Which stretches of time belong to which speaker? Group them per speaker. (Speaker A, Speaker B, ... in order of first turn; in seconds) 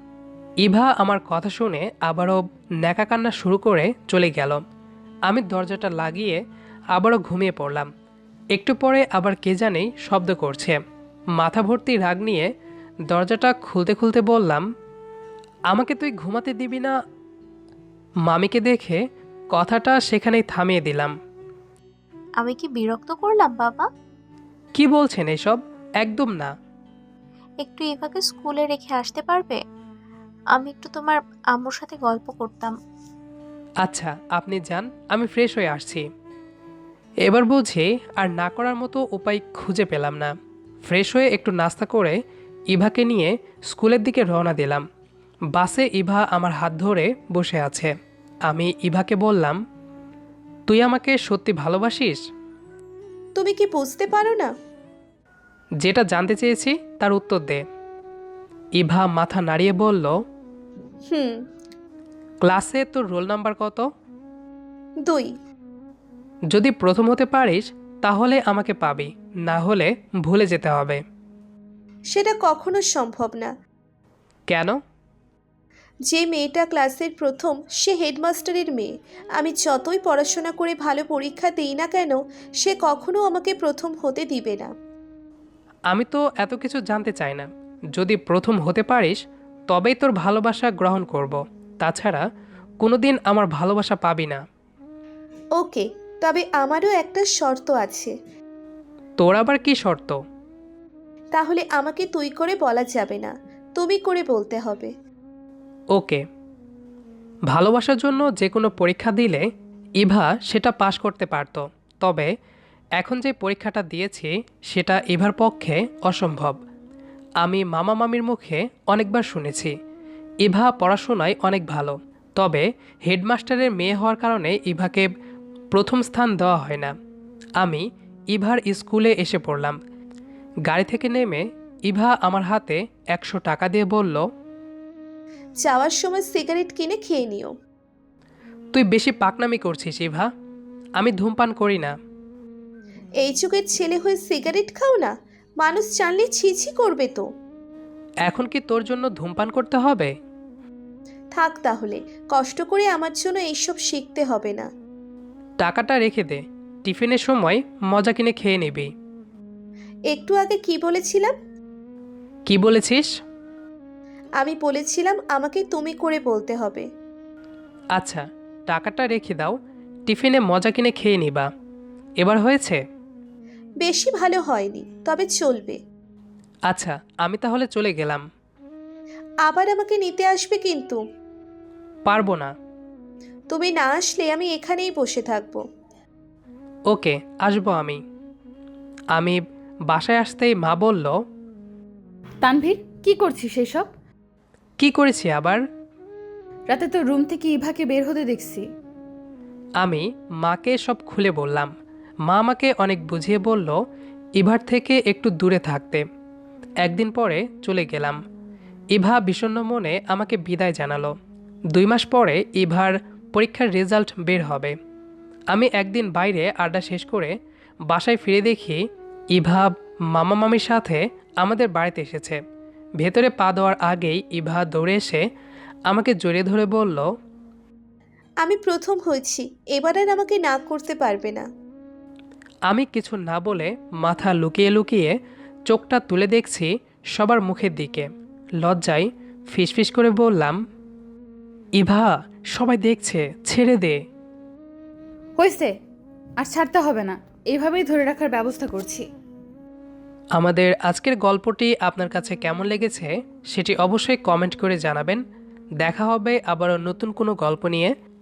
Speaker A: 0.6-4.6, 5.3-6.4, 6.9-7.9, 8.5-10.8, 11.3-12.5, 13.1-14.7, 15.7-16.9, 18.2-19.0, 19.5-21.1, 24.8-26.5, 33.8-36.0, 37.2-40.3, 40.9-42.2, 42.7-44.8, 45.5-47.9, 48.5-49.6, 50.7-52.2, 55.8-57.6, 58.8-60.2, 62.4-63.9, 66.5-71.0, 74.5-74.8, 85.9-92.2, 92.8-94.4, 99.2-100.2, 105.9-106.2, 107.5-109.5, 110.0-112.3, 113.0-116.6, 117.4-119.7, 120.4-125.1, 125.7-126.9, 127.6-129.8, 130.7-134.3, 138.7-140.3, 141.0-141.9, 148.2-150.1, 155.6-158.9, 162.5-163.1, 167.9-169.6, 170.1-171.5, 172.2-172.8, 176.7-178.2, 182.1-182.5, 186.9-188.0, 189.1-191.1, 194.8-195.6, 199.8-201.7, 202.2-203.8, 204.4-206.0, 206.8-208.2, 208.9-211.1, 211.7-214.7, 215.5-217.3, 217.9-218.8, 219.3-222.4, 223.0-225.2, 225.9-227.1, 232.7-235.2, 235.7-238.1, 238.6-240.6, 241.8-244.0, 250.3-255.2, 255.8-257.9
Speaker B: 22.4-23.9, 27.6-29.6, 30.5-32.7
Speaker C: 53.4-54.5, 61.1-61.4, 65.0-65.3, 72.1-73.5, 76.1-84.7, 95.6-98.1, 101.3-104.9, 135.6-137.5, 143.2-147.3, 151.3-154.7, 160.1-161.3, 164.4-166.9, 173.8-175.8, 179.4-181.0, 183.5-185.6, 228.4-231.4
Speaker D: 192.4-193.9, 196.7-198.7, 245.4-245.7, 246.4-249.1